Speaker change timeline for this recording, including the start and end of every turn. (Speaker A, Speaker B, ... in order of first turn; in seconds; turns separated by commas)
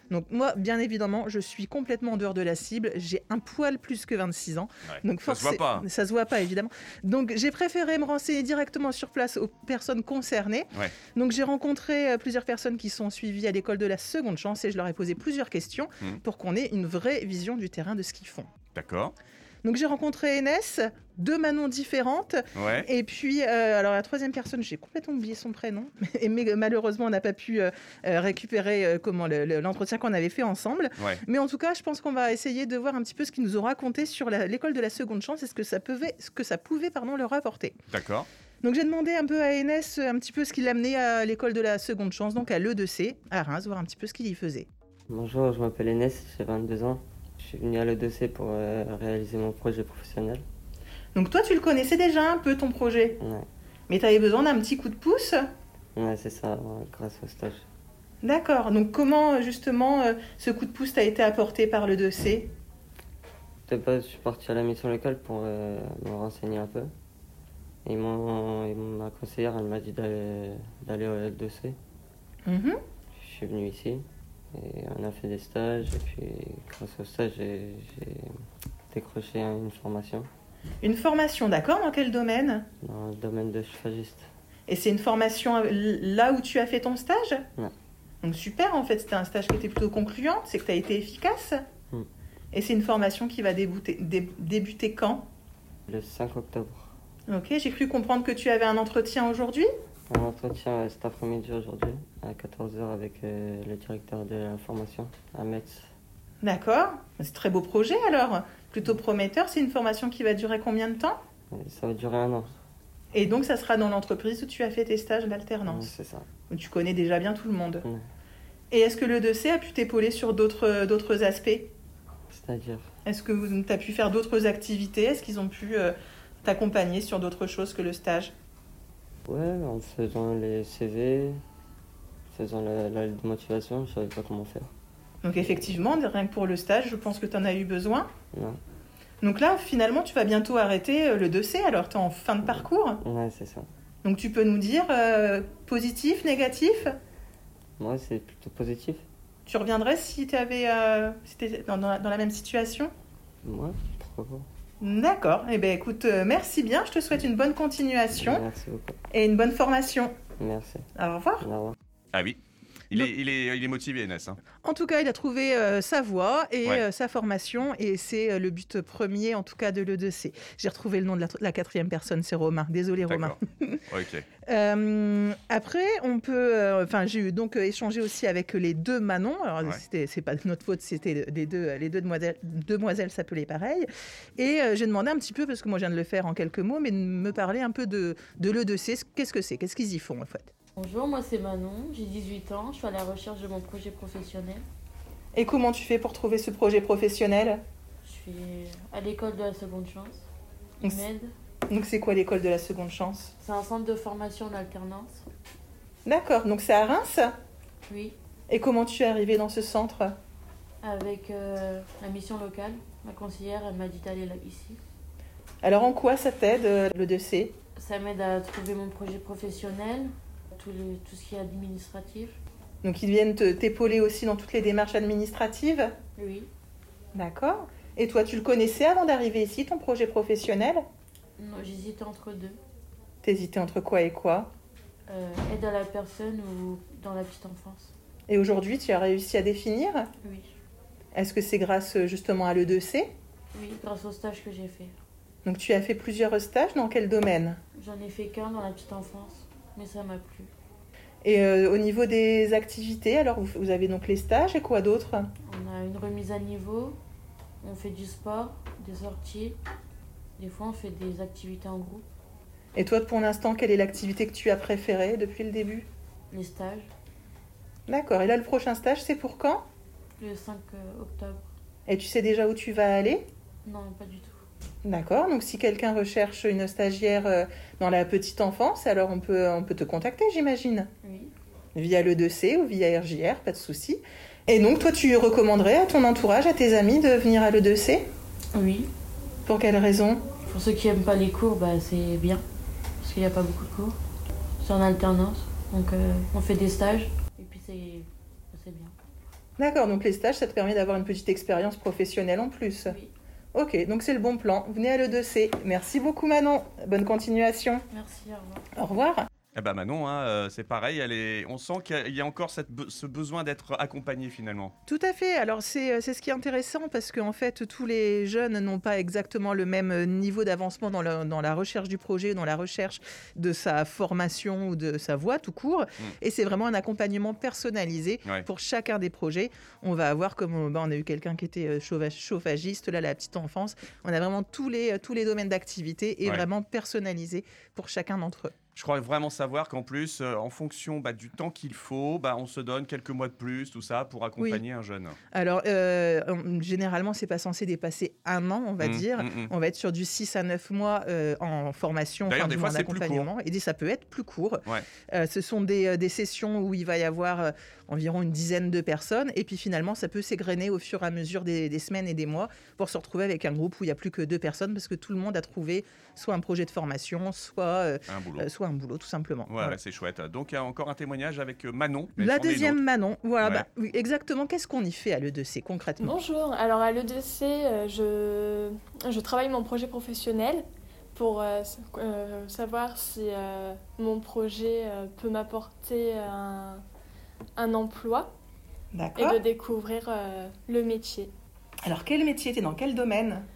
Speaker A: 0.1-18.5, Speaker B: 4.8-5.8, Speaker B: 18.7-19.1, Speaker A: 19.6-37.8, Speaker B: 22.6-22.9, Speaker B: 37.9-38.3, Speaker A: 38.6-44.7, Speaker C: 45.1-50.4, Speaker A: 51.1-53.2, Speaker C: 53.2-53.5, Speaker A: 53.9-55.4, Speaker C: 55.9-57.7, Speaker A: 58.2-62.5, Speaker C: 63.6-66.9, Speaker C: 67.8-71.8, Speaker A: 72.5-72.8, Speaker C: 73.1-78.3, Speaker C: 78.9-80.3, Speaker A: 80.8-82.7, Speaker C: 82.8-84.3, Speaker A: 84.7-87.4, Speaker A: 88.2-91.6, Speaker A: 92.5-95.3, Speaker C: 95.9-96.9, Speaker A: 97.3-99.7, Speaker C: 100.1-105.9, Speaker A: 106.4-111.2, Speaker C: 111.5-112.5, Speaker A: 113.1-115.9, Speaker C: 115.6-116.3, Speaker A: 116.5-117.8, Speaker A: 118.7-121.7, Speaker C: 122.3-122.9, Speaker A: 123.0-128.3, Speaker C: 129.2-131.4, Speaker C: 132.3-134.7, Speaker A: 135.2-138.1, Speaker C: 138.3-138.6, Speaker A: 139.2-143.0, Speaker C: 143.0-143.7, Speaker A: 144.0-146.9, Speaker C: 147.8-149.0, Speaker A: 149.4-152.9, Speaker C: 153.4-154.4, Speaker A: 154.8-158.4, Speaker C: 158.2-159.0, Speaker A: 159.1-160.1, Speaker C: 160.4-160.9, Speaker A: 160.9-161.5, Speaker C: 161.4-161.7, Speaker B: 162.1-162.4, Speaker B: 162.9-164.4, Speaker A: 164.6-173.8, Speaker B: 173.1-174.2, Speaker A: 174.4-190.5, Speaker D: 190.8-194.6, Speaker A: 195.3-197.6, Speaker D: 198.0-200.3, Speaker D: 200.8-201.3, Speaker A: 201.7-203.3, Speaker D: 203.4-205.3, Speaker A: 206.0-207.3, Speaker D: 207.9-208.2, Speaker A: 208.5-210.1, Speaker D: 210.8-214.8, Speaker A: 215.6-217.6, Speaker D: 217.8-222.4, Speaker A: 222.8-225.9, Speaker D: 226.2-226.5, Speaker A: 227.1-230.8, Speaker D: 231.4-232.6, Speaker A: 233.2-234.5, Speaker D: 235.1-237.9, Speaker A: 238.3-240.1, Speaker D: 240.2-240.5, Speaker A: 241.1-243.1, Speaker D: 243.5-244.9, Speaker A: 245.4-247.6, Speaker D: 247.7-250.5, Speaker A: 251.2-255.3, Speaker D: 255.4-257.0, Speaker D: 257.6-259.6, Speaker D: 260.4-262.1, Speaker A: 262.7-265.9, Speaker D: 266.3-266.9, Speaker A: 267.9-269.6, Speaker D: 270.2-271.5, Speaker A: 271.9-273.3, Speaker D: 273.6-274.4, Speaker A: 274.8-280.9, Speaker D: 281.0-281.3, Speaker A: 281.7-288.1, Speaker D: 288.5-288.9, Speaker A: 289.4-290.2, Speaker D: 290.4-292.4, Speaker D: 293.0-294.0, Speaker D: 294.6-298.9, Speaker A: 299.6-303.0, Speaker D: 302.8-303.1, Speaker A: 303.5-307.8, Speaker D: 307.9-308.6, Speaker A: 308.8-309.3, Speaker B: 309.5-314.7, Speaker A: 314.9-338.5, Speaker B: 338.8-345.2, Speaker A: 344.4-344.6, Speaker A: 345.3-369.8, Speaker B: 348.8-349.5, Speaker B: 352.3-353.3, Speaker B: 368.1-368.5, Speaker B: 369.5-372.8, Speaker A: 372.2-376.2, Speaker B: 373.4-373.7, Speaker E: 376.0-380.6, Speaker E: 381.1-386.8, Speaker E: 387.6-388.3, Speaker A: 388.9-389.4, Speaker E: 389.1-391.3, Speaker A: 391.8-393.4